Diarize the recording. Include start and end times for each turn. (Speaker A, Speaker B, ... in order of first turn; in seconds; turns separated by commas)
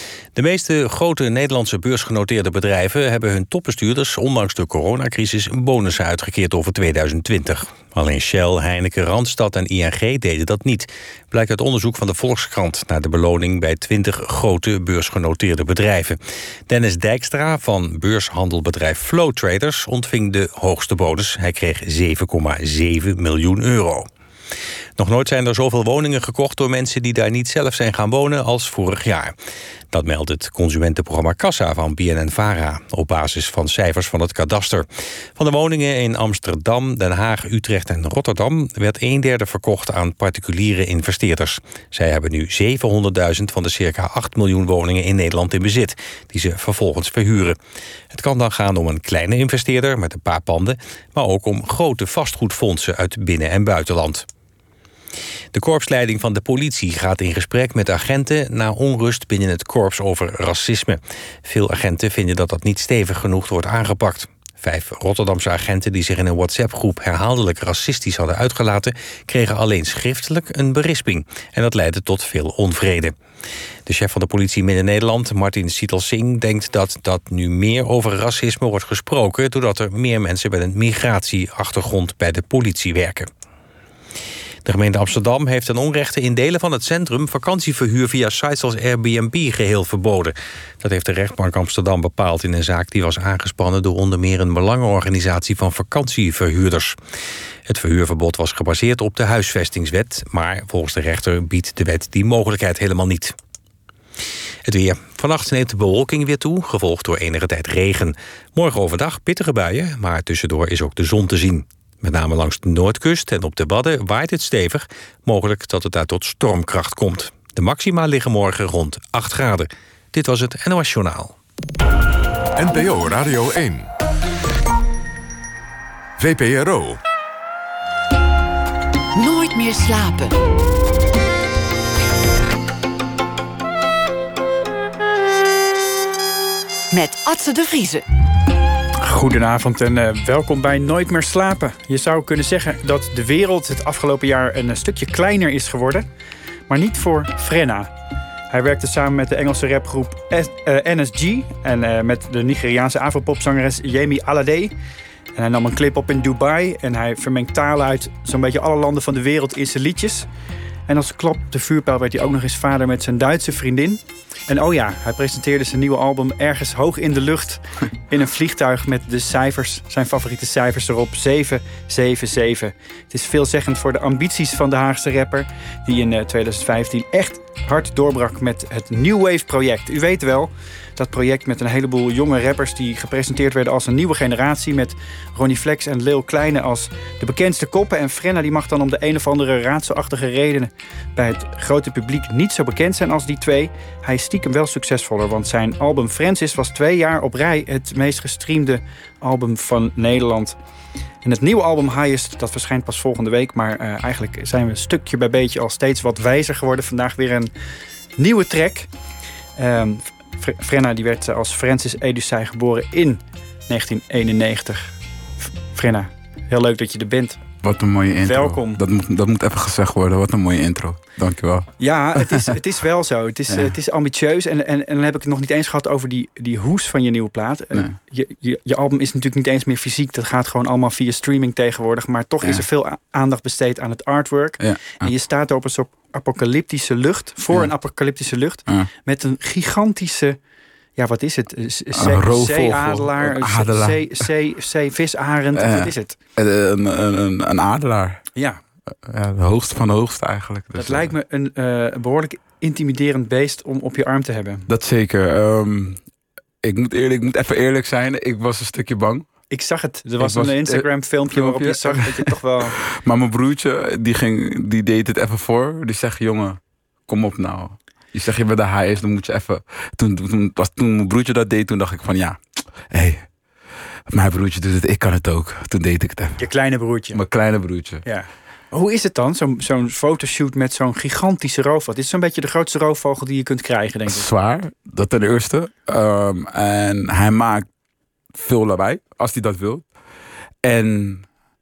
Speaker A: 0.3-24.1, Speaker A: 25.0-29.3, Speaker A: 29.9-47.6, Speaker A: 48.1-54.3, Speaker A: 55.5-73.1, Speaker A: 73.8-83.3, Speaker A: 84.6-97.0, Speaker A: 97.7-103.3, Speaker A: 104.6-121.3, Speaker B: 122.5-123.9, Speaker B: 126.2-127.0, Speaker C: 129.1-130.3, Speaker C: 136.9-138.0, Speaker D: 139.0-146.1, Speaker D: 146.7-147.9, Speaker D: 148.5-154.7, Speaker D: 155.3-160.3, Speaker D: 160.9-200.6, Speaker D: 201.2-207.5, Speaker D: 208.2-208.9, Speaker D: 209.6-214.9, Speaker D: 215.6-217.4, Speaker E: 217.6-222.5, Speaker D: 218.2-218.8, Speaker D: 221.8-240.4, Speaker E: 234.6-235.1, Speaker D: 240.9-246.2, Speaker E: 241.9-244.3, Speaker E: 245.5-248.2, Speaker D: 248.3-248.6, Speaker E: 248.9-251.1, Speaker D: 250.8-254.7, Speaker E: 254.7-256.0, Speaker E: 256.6-259.3, Speaker D: 259.5-262.8, Speaker E: 260.2-273.3, Speaker E: 274.1-276.5, Speaker D: 276.4-277.2, Speaker E: 277.1-278.0, Speaker D: 278.0-284.3, Speaker E: 284.1-287.7, Speaker E: 288.3-289.9, Speaker E: 290.6-291.3